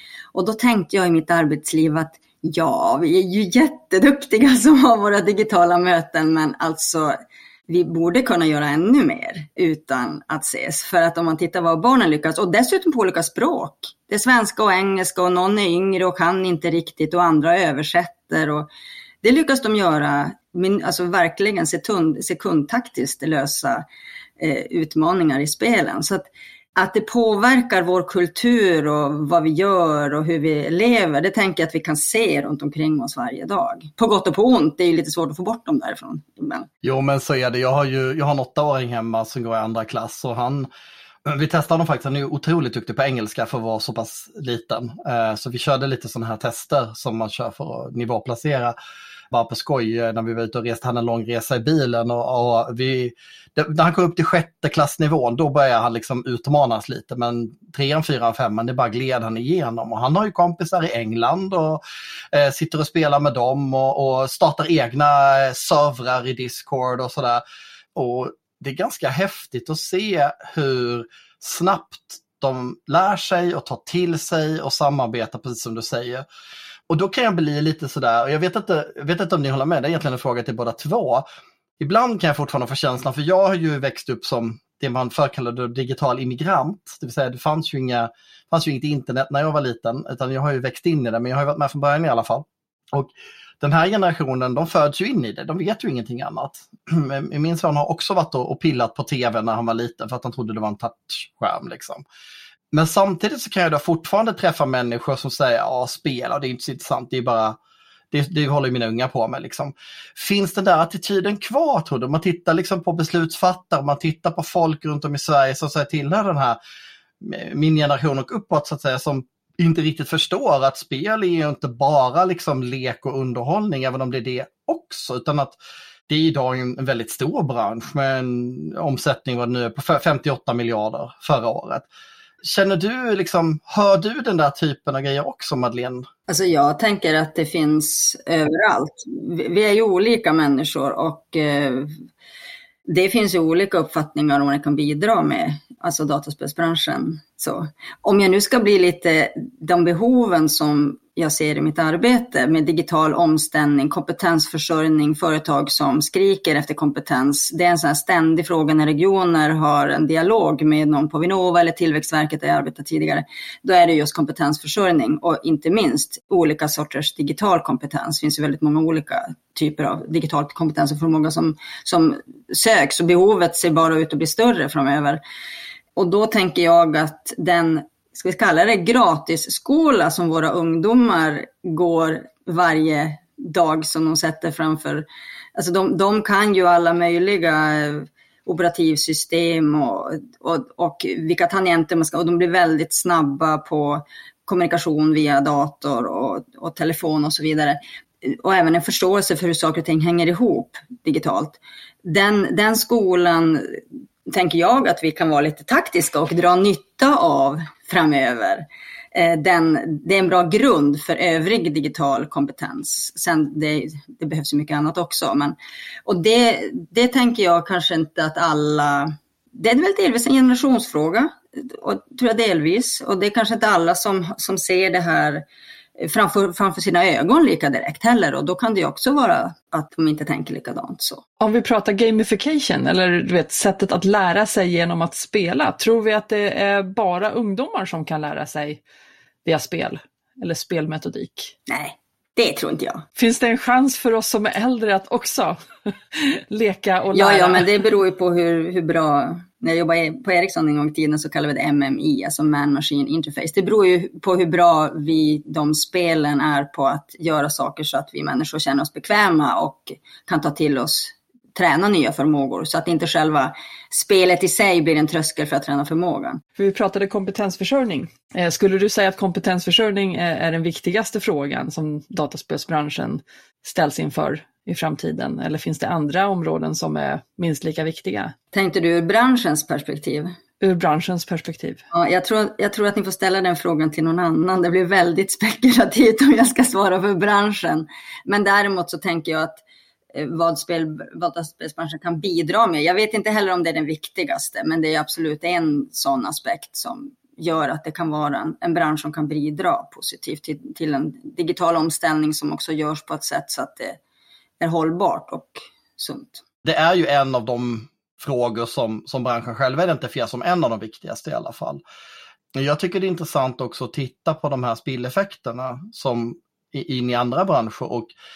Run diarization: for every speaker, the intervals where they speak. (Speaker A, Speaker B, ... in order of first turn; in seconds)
Speaker A: 0.3-7.2, 7.7-18.7, 19.2-23.8, 24.4-36.7, 136.3-142.0, 142.9-175.2, 176.0-225.4, 226.0-231.2, 241.7-243.1, 247.1-266.4, 278.5-280.4, 281.9-289.6, 290.1-304.0, 304.6-306.4
Speaker B: 36.8-40.7, 41.3-48.8, 49.3-61.8, 62.3-67.4, 68.0-76.2, 76.9-81.2, 81.8-102.0, 102.7-107.6, 108.1-116.6, 117.2-125.6, 126.1-131.9, 132.4-136.1, 306.6-311.8, 312.6-318.1
Speaker C: 231.4-238.8, 239.4-241.5, 243.2-245.6, 246.1-247.7, 266.6-278.3, 280.6-281.8